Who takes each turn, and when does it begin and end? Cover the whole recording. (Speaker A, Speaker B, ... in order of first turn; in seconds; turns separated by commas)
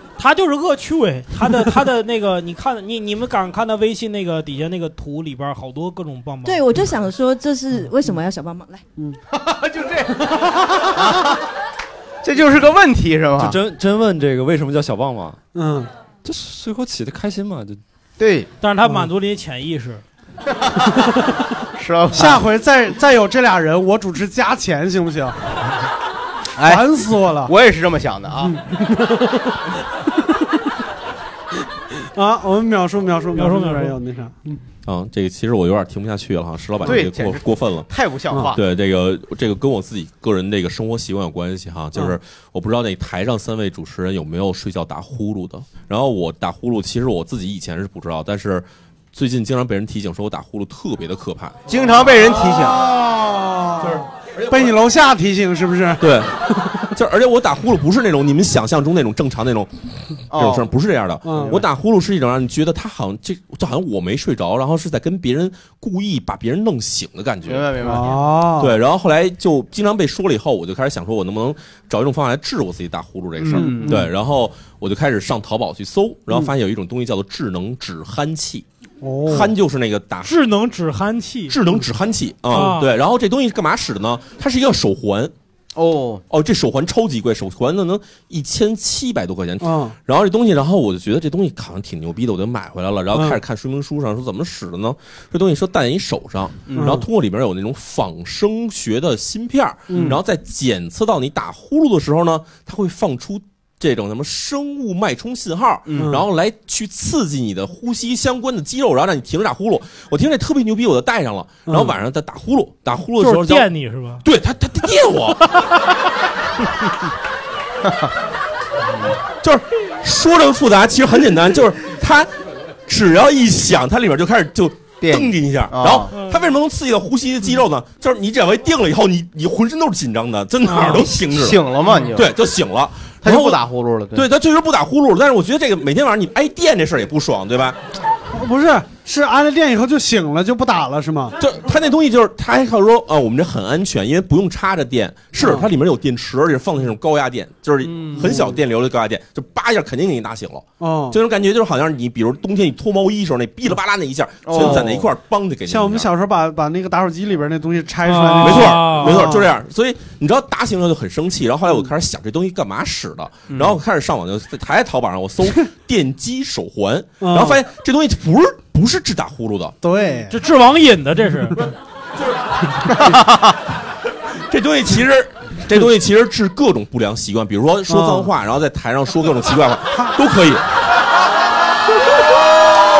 Speaker A: 0.2-6.6, Speaker B: 6.4-8.8, Speaker C: 9.3-11.3, Speaker D: 10.4-10.8, Speaker C: 12.2-13.6, Speaker E: 13.4-15.4, Speaker D: 15.5-15.9, Speaker E: 16.2-17.8, Speaker C: 18.2-18.5, Speaker A: 18.6-20.0, Speaker C: 21.8-22.4, Speaker D: 22.1-25.4, Speaker C: 26.6-26.9, Speaker D: 26.6-27.5, Speaker C: 27.4-28.6, Speaker D: 28.4-29.5, Speaker D: 32.1-34.6, Speaker A: 33.4-34.0, Speaker F: 34.9-37.9, Speaker C: 36.9-38.6, Speaker F: 38.5-51.6, Speaker C: 51.7-52.9, Speaker D: 52.1-56.4, Speaker F: 56.0-56.3, Speaker F: 56.9-59.7, Speaker C: 60.3-60.7, Speaker F: 60.3-67.7, Speaker D: 61.2-61.6, Speaker C: 61.3-61.7, Speaker C: 67.5-68.2, Speaker D: 67.8-68.8, Speaker F: 68.6-78.6, Speaker C: 73.4-74.0, Speaker D: 73.5-74.1, Speaker D: 79.0-79.5, Speaker F: 79.3-80.3, Speaker A: 80.2-81.6, Speaker F: 81.5-85.3, Speaker A: 82.5-82.9, Speaker C: 85.7-86.2, Speaker F: 86.3-113.7, Speaker D: 89.6-90.0, Speaker D: 93.1-93.4, Speaker D: 96.7-97.0, Speaker D: 99.9-100.2, Speaker C: 105.9-106.1, Speaker D: 106.0-106.2, Speaker D: 111.7-111.9, Speaker A: 113.2-114.2, Speaker F: 114.2-115.5, Speaker C: 117.8-118.1, Speaker F: 119.4-122.3, Speaker F: 122.9-131.6, Speaker C: 125.0-126.1, Speaker A: 126.1-126.4, Speaker A: 130.7-131.0, Speaker C: 130.8-132.3, Speaker F: 132.1-133.6, Speaker C: 133.2-134.3, Speaker F: 134.1-137.8, Speaker D: 138.3-141.3, Speaker F: 141.4-156.1, Speaker D: 145.4-145.7, Speaker C: 147.8-148.5, Speaker D: 148.2-148.6, Speaker D: 150.8-151.2, Speaker C: 154.4-155.1, Speaker D: 154.6-154.9, Speaker D: 155.7-159.5, Speaker A: 158.0-159.2, Speaker F: 158.4-169.7, Speaker C: 163.5-163.8, Speaker D: 167.2-167.6, Speaker D: 169.8-170.3, Speaker A: 170.3-171.6, Speaker C: 173.0-173.5, Speaker F: 174.5-180.6, Speaker D: 177.9-178.3, Speaker D: 179.9-180.2